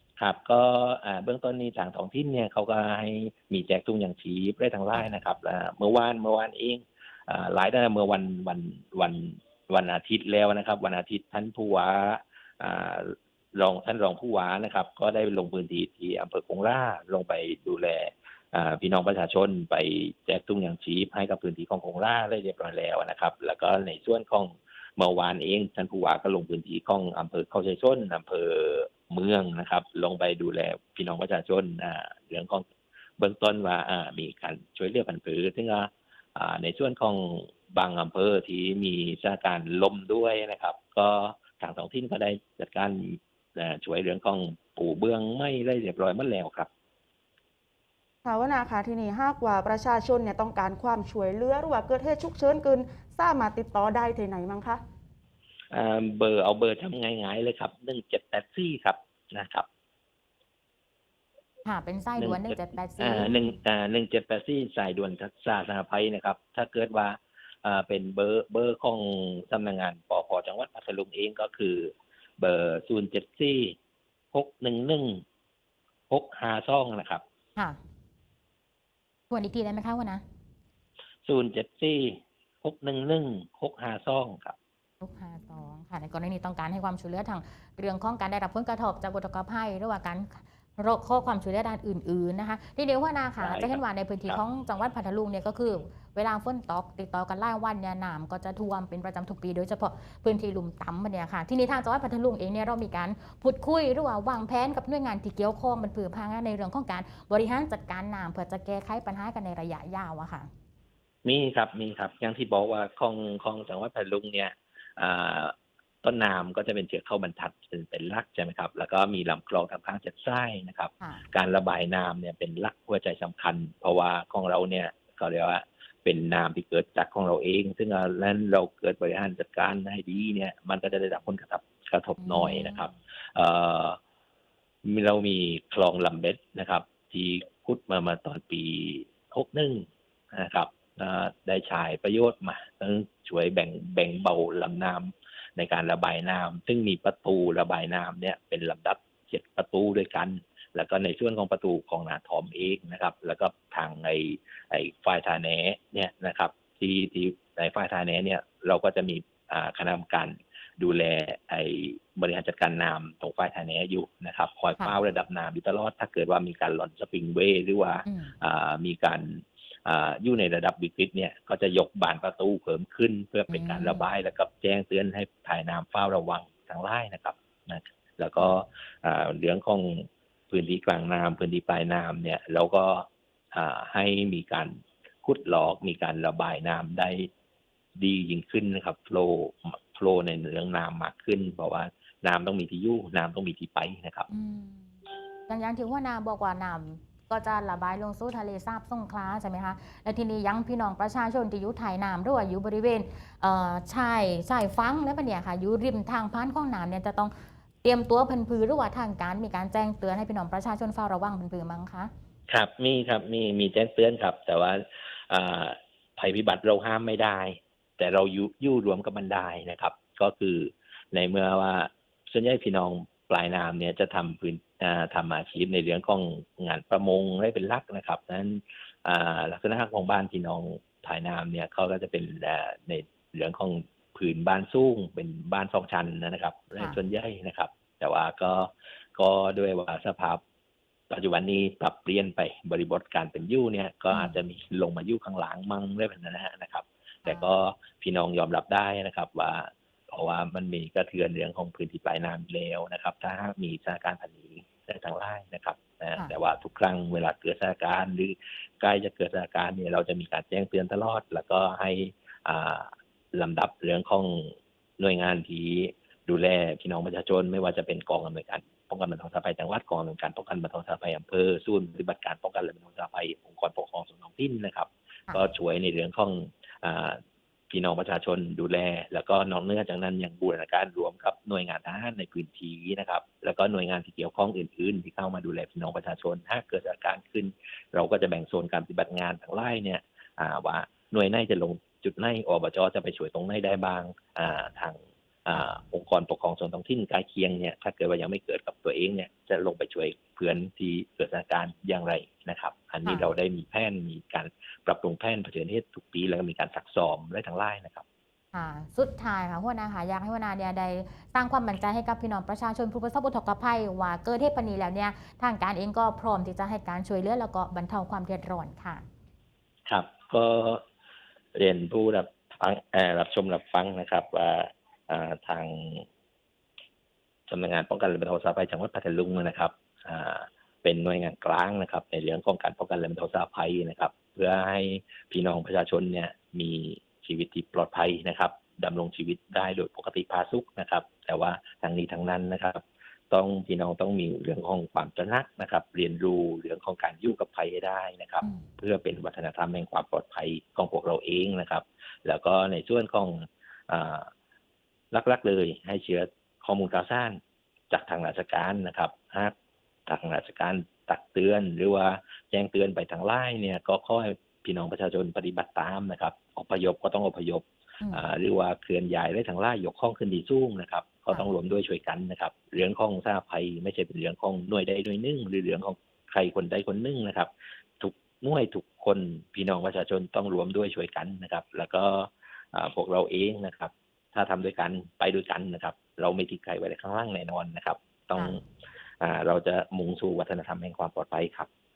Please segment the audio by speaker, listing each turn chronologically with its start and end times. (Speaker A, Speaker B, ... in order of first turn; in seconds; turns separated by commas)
Speaker A: 0.2-32.6, Speaker A: 33.2-46.7, Speaker B: 48.2-54.8, Speaker A: 55.7-59.7, Speaker C: 61.6-63.5, Speaker A: 62.2-73.8, Speaker A: 74.3-75.2, Speaker A: 76.1-77.2, Speaker C: 79.3-80.2, Speaker A: 81.2-84.5, Speaker C: 85.0-110.5, Speaker A: 93.4-94.4, Speaker A: 111.2-134.0, Speaker C: 132.2-132.9, Speaker A: 134.8-187.3, Speaker C: 168.1-168.3, Speaker C: 173.5-174.0, Speaker A: 188.0-194.3, Speaker C: 194.3-194.9, Speaker C: 195.5-212.1, Speaker A: 212.5-240.4, Speaker A: 241.1-308.0, Speaker C: 244.1-244.4, Speaker C: 247.2-247.5, Speaker C: 308.5-319.0, Speaker A: 319.9-320.8, Speaker A: 321.5-326.1, Speaker A: 327.5-354.3, Speaker A: 355.1-359.5, Speaker A: 360.1-388.6, Speaker C: 368.0-368.3, Speaker A: 389.2-391.7